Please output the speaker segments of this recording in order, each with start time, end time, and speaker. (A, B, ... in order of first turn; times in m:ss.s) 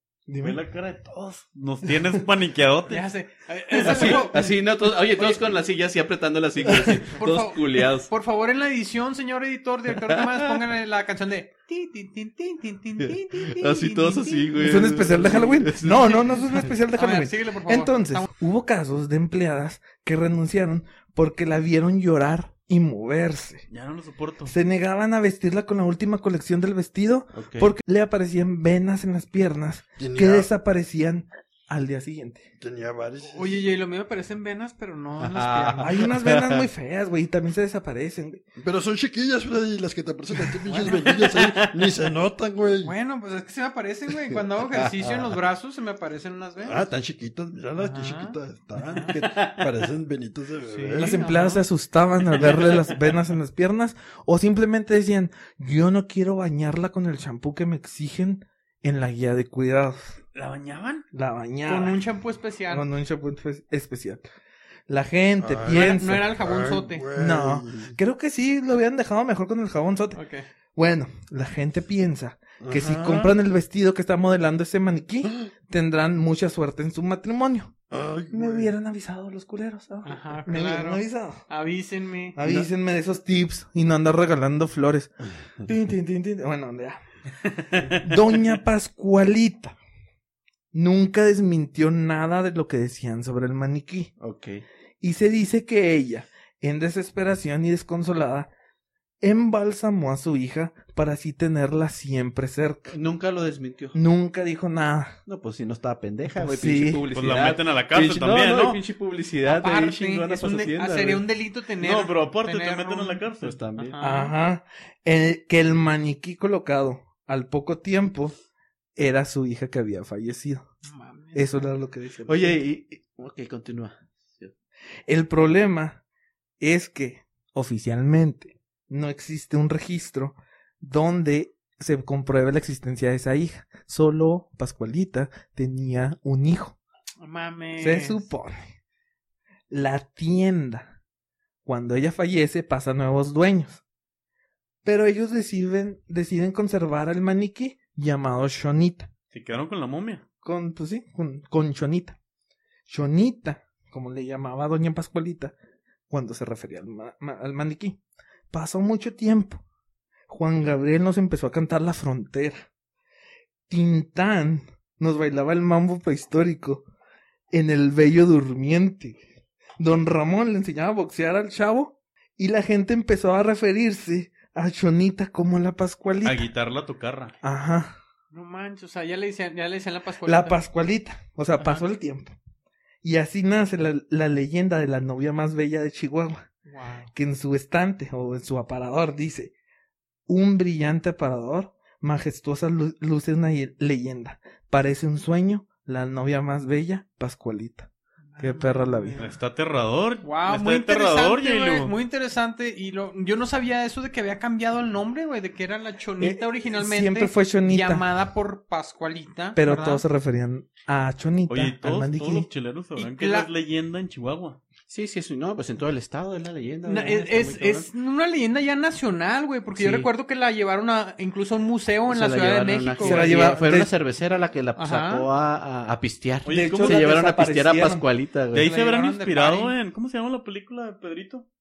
0:00.3-0:00.6 A
0:00.4-0:03.0 B
0:02.9-0:04.6 C
0:03.8-0:08.1 D
0:05.1-0:05.4 C
0:07.0-0:15.5 C
0:10.0-0:10.6 D
0:13.0-0:16.6 D
0:14.6-0:23.7 A
0:16.9-0:18.3 C
0:23.7-0:24.5 B
0:24.4-0:32.5 A
0:27.3-0:27.7 D
0:30.0-0:30.5 E
0:32.6-0:33.6 E
0:33.2-0:36.0 C
0:35.2-0:36.6 D
0:35.8-0:38.4 A
0:38.6-0:42.9 E
0:40.7-0:41.0 C
0:40.7-0:41.3 D
0:42.8-0:46.9 C
0:44.7-0:45.3 D
0:46.6-0:51.2 E
0:47.8-0:49.2 C
0:49.2-0:49.6 B
0:50.7-0:51.6 C
0:51.0-1:00.2 A
1:00.3-1:01.0 B
1:01.1-1:02.0 A
1:01.6-1:02.9 C
1:02.7-1:04.2 A
1:04.9-1:06.3 A
1:05.4-1:07.9 E
1:05.7-1:07.0 C
1:07.1-1:10.2 A
1:10.1-1:10.4 C
1:10.7-1:17.7 A
1:12.6-1:13.4 E
1:15.2-1:15.5 E
1:17.9-1:18.7 E
1:18.3-1:21.4 A
1:20.0-1:22.4 C
1:22.4-1:25.1 A
1:22.4-1:22.7 E
1:25.6-1:27.0 A
1:28.0-1:29.8 A
1:30.7-1:34.1 A
1:34.2-1:34.6 D
1:35.0-1:38.5 A
1:39.2-1:42.9 A
1:42.9-1:44.0 D
1:43.9-1:45.2 A
1:45.3-1:51.2 D
1:46.3-1:47.0 A
1:47.1-1:48.8 B
1:49.4-1:53.2 C
1:51.8-1:53.6 B
1:53.4-1:54.0 D
1:53.8-1:54.3 C
1:54.0-1:58.4 A
1:59.0-2:00.7 A
2:00.8-2:01.7 C
2:01.3-2:02.6 A
2:02.2-2:04.5 D
2:05.1-2:06.0 A
2:06.6-2:16.8 A
2:17.2-2:18.3 C
2:17.8-2:18.6 A
2:19.7-2:20.9 A
2:21.6-2:23.8 A
2:24.8-2:29.1 A
2:29.3-2:30.2 B
2:30.4-2:32.2 A
2:32.9-2:35.5 A
2:36.1-2:38.0 A
2:38.5-2:39.6 A
2:40.3-2:42.7 A
2:43.7-2:46.8 A
2:47.5-2:49.2 A
2:49.8-2:56.5 A
2:56.2-2:57.3 B
2:57.4-2:58.0 A
2:58.3-3:00.6 C
3:00.2-3:02.3 A
3:01.6-3:01.8 C
3:03.0-3:06.4 A
3:06.6-3:07.1 C
3:07.1-3:09.5 A
3:10.3-3:19.3 A
3:18.3-3:19.2 C
3:19.2-3:21.9 B
3:20.2-3:30.0 C
3:26.2-3:28.1 A
3:29.5-3:32.5 A
3:31.5-3:34.6 B
3:33.0-3:33.5 C
3:34.9-3:37.9 D
3:36.8-3:43.6 C
3:39.8-3:40.1 D
3:42.1-3:48.7 D
3:43.0-3:43.9 A
3:44.8-3:45.3 C
3:46.4-3:47.1 B
3:46.5-3:48.0 A
3:48.5-3:51.4 B
3:48.6-3:49.8 C